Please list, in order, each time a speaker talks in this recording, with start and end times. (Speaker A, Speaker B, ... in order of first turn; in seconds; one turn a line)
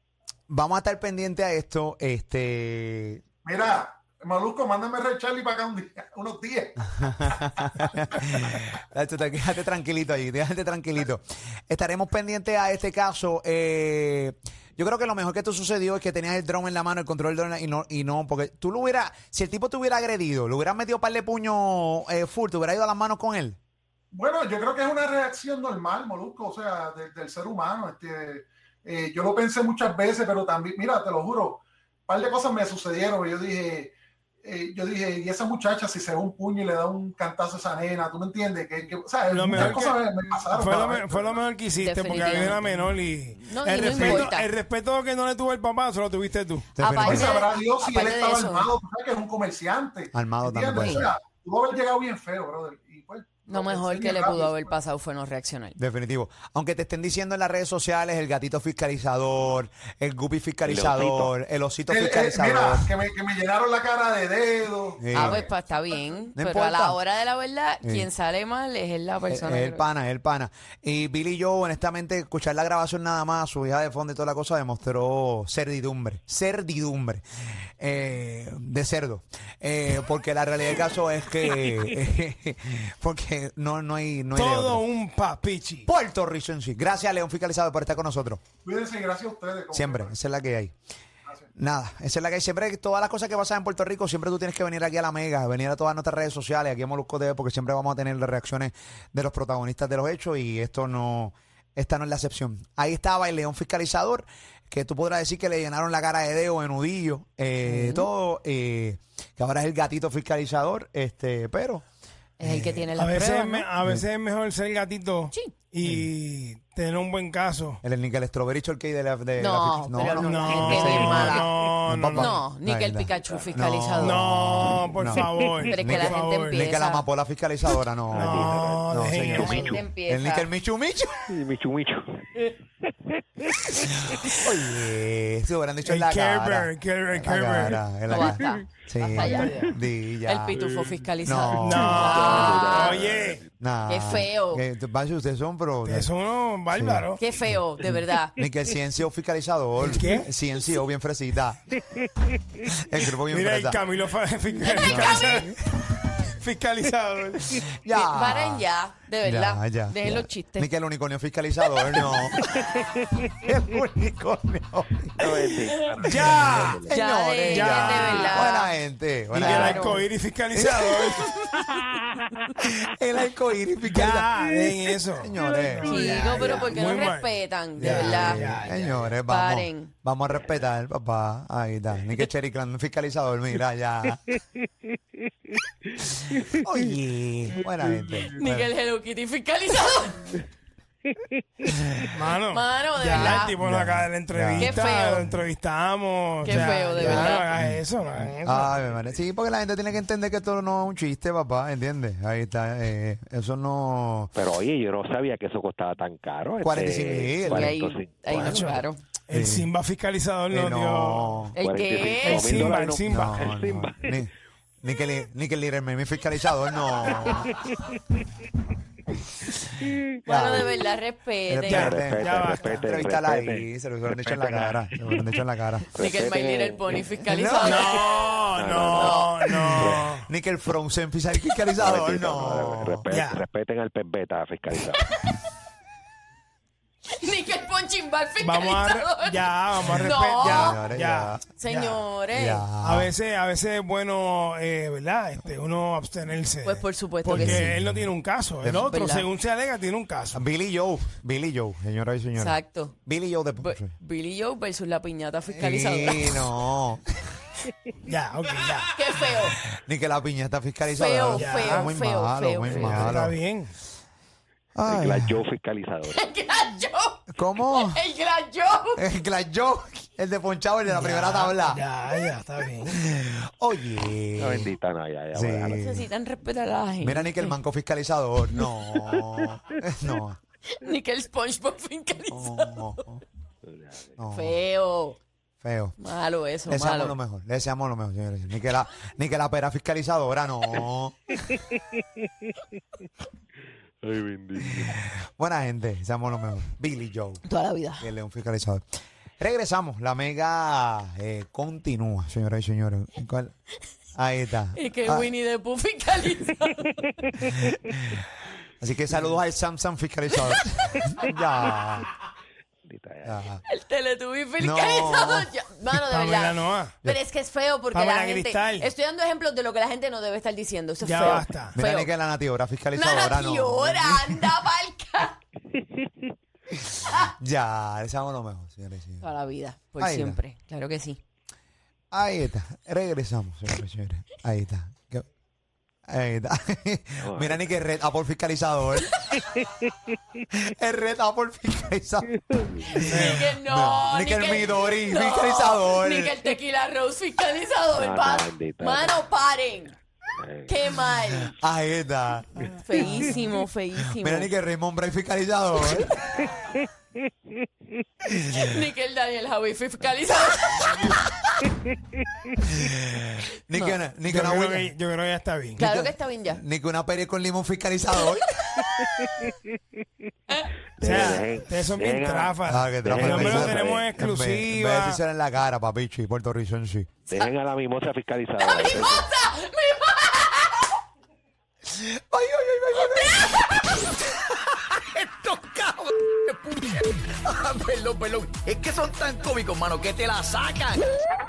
Speaker A: 0.5-3.2
Speaker B: 3.4-8.2
Speaker A: 7.0-23.6
Speaker B: 24.1-41.4
Speaker C: 39.3-46.7
Speaker D: 41.8-42.6
Speaker D: 43.4-44.5
Speaker A: 46.8-47.4
Speaker D: 46.8-48.7
Speaker B: 47.0-54.7
Speaker A: 50.1-51.1
Speaker D: 50.7-51.1
Speaker D: 53.5-55.8
Speaker A: 55.8-62.9
Speaker E: 60.6-61.3
Speaker B: 61.9-65.5
Speaker A: 65.0-65.4
Speaker D: 65.1-69.9
Speaker A: 66.4-67.0
Speaker A: 69.3-84.8
Speaker C: 84.3-85.9
Speaker A: 85.9-88.4
Speaker B: 88.6-90.1
Speaker A: 89.7-90.7
Speaker A: 91.5-111.8
Speaker D: 107.6-108.1
Speaker D: 112.4-113.7
Speaker A: 112.4-112.9
Speaker C: 113.0-117.8
Speaker A: 117.8-131.4
Speaker D: 119.4-121.5
Speaker C: 120.1-122.4
Speaker D: 122.1-124.2
Speaker E: 123.2-123.6
Speaker C: 124.0-126.6
Speaker D: 125.7-127.0
Speaker E: 128.1-129.7
Speaker C: 128.1-129.8
Speaker D: 129.3-130.5
Speaker E: 131.3-132.4
Speaker E: 133.0-133.9
Speaker A: 134.1-140.6
Speaker C: 135.8-137.8
Speaker D: 138.1-139.7
Speaker E: 139.2-139.7
Speaker D: 140.2-143.0
Speaker E: 140.5-141.2
Speaker A: 141.2-142.3
Speaker C: 141.6-143.4
Speaker E: 141.9-143.5
Speaker A: 143.6-146.1
Speaker D: 143.9-144.6
Speaker C: 145.8-147.2
Speaker A: 146.7-151.7
Speaker D: 147.2-148.4
Speaker C: 149.8-150.3
Speaker A: 152.7-153.8
Speaker C: 153.3-155.6
Speaker D: 154.6-155.4
Speaker A: 154.8-155.6
Speaker C: 156.3-157.7
Speaker A: 157.7-158.7
Speaker D: 157.9-160.7
Speaker A: 159.2-162.4
Speaker A: 163.4-165.5
Speaker E: 165.2-166.9
Speaker C: 166.0-166.8
Speaker A: 166.1-171.3
Speaker D: 166.9-168.7
Speaker C: 167.5-168.4
Speaker C: 169.3-171.8
Speaker D: 169.4-170.0
Speaker A: 172.6-174.3
Speaker C: 173.8-178.8
Speaker A: 175.2-175.9
Speaker D: 175.8-178.4
Speaker E: 176.3-177.0
Speaker A: 177.8-184.3
Speaker D: 179.2-179.9
Speaker A: 186.4-188.7
Speaker E: 187.8-188.2
Speaker D: 188.3-190.3
Speaker C: 192.1-198.8
Speaker D: 192.5-193.6
Speaker A: 193.2-195.4
Speaker D: 194.6-195.3
Speaker D: 196.4-197.5
Speaker A: 196.5-197.8
Speaker A: 198.4-204.3
Speaker E: 204.3-208.8
Speaker A: 206.6-207.7
Speaker D: 207.4-209.0
Speaker C: 208.3-211.4
Speaker A: 209.3-209.7
Speaker A: 210.5-211.5
Speaker D: 211.5-212.8
Speaker E: 211.6-214.2
Speaker C: 212.2-213.5
Speaker A: 213.0-214.3
Speaker A: 214.8-217.7
Speaker E: 217.2-217.9
Speaker A: 219.5-220.7
Speaker D: 220.2-222.0
Speaker A: 221.5-225.9
Speaker C: 221.7-222.8
Speaker E: 221.7-224.9
Speaker E: 225.9-227.1
Speaker D: 226.0-228.1
Speaker A: 227.3-228.0
Speaker C: 227.6-230.3
Speaker E: 228.5-230.1
Speaker D: 228.9-229.3
Speaker A: 229.5-233.0
Speaker E: 231.8-235.0
Speaker C: 233.1-233.4
Speaker D: 235.0-235.4
Speaker D: 237.1-240.8
Speaker C: 238.4-242.0
Speaker A: 240.4-241.4
Speaker D: 241.6-242.7
Speaker A: 242.3-243.1
Speaker C: 242.8-250.4
Speaker D: 246.6-247.7
Speaker A: 247.3-248.1
Speaker A: 248.6-248.9
Speaker D: 248.7-249.3
Speaker A: 250.3-253.9
Speaker D: 252.4-252.9
Speaker D: 253.6-256.4
Speaker A: 255.4-257.3
Speaker C: 258.0-259.3
Speaker D: 258.9-259.6
Speaker A: 259.7-263.4
Speaker D: 260.9-263.1
Speaker C: 261.4-261.9
Speaker C: 262.7-263.7
Speaker A: 264.7-265.4
Speaker E: 264.8-266.2
Speaker D: 266.0-269.0
Speaker A: 267.3-268.0
Speaker A: 268.9-271.8
Speaker C: 270.9-273.0
Speaker A: 272.8-274.7
Speaker E: 274.4-275.8
Speaker A: 275.3-276.1
Speaker D: 275.7-277.5
Speaker A: 277.0-280.4
Speaker D: 280.7-283.0
Speaker A: 282.3-283.2
Speaker E: 283.6-284.2
Speaker A: 284.2-284.6
Speaker D: 284.3-285.2
Speaker A: 285.6-285.9
Speaker D: 286.0-287.1
Speaker A: 286.7-291.4
Speaker E: 291.5-292.0
Speaker E: 294.0-295.1
Speaker A: 294.7-297.4
Speaker D: 297.4-298.1
Speaker A: 298.0-298.8
Speaker A: 299.4-303.5
Speaker A: 304.1-305.3
Speaker D: 304.7-307.2
Speaker A: 307.7-308.2
Speaker A: 308.8-312.1
Speaker E: 312.9-313.6
Speaker A: 313.2-313.6
Speaker D: 313.7-322.1
Speaker A: 314.6-315.5
Speaker C: 316.0-316.9
Speaker C: 317.9-318.9
Speaker C: 321.0-321.8
Speaker A: 321.7-324.6
Speaker D: 322.9-325.4
Speaker D: 327.0-327.3
Speaker A: 327.1-329.3
Speaker D: 329.2-331.2
Speaker A: 330.0-330.4
Speaker A: 332.1-335.3
Speaker A: 336.1-339.2
Speaker E: 337.2-337.7
Speaker E: 339.4-340.4
Speaker A: 340.5-346.3
Speaker E: 342.4-342.9
Speaker D: 342.9-349.9
Speaker C: 343.1-343.5
Speaker E: 347.9-349.2
Speaker E: 350.4-350.7
Speaker D: 350.7-351.6
Speaker A: 351.6-353.2
Speaker D: 352.8-354.5
Speaker A: 354.1-356.2
Speaker A: 358.3-358.7
Speaker D: 358.5-361.2
Speaker A: 362.7-364.9
Speaker C: 364.3-365.8
Speaker D: 365.8-366.6
Speaker A: 365.8-369.2
Speaker E: 371.0-374.1
Speaker C: 371.0-375.2
Speaker A: 371.0-371.4
Speaker A: 372.6-377.1
Speaker E: 377.3-379.2
Speaker D: 378.6-380.8
Speaker A: 381.9-383.6
Speaker D: 383.0-383.6
Speaker F: 385.0-391.0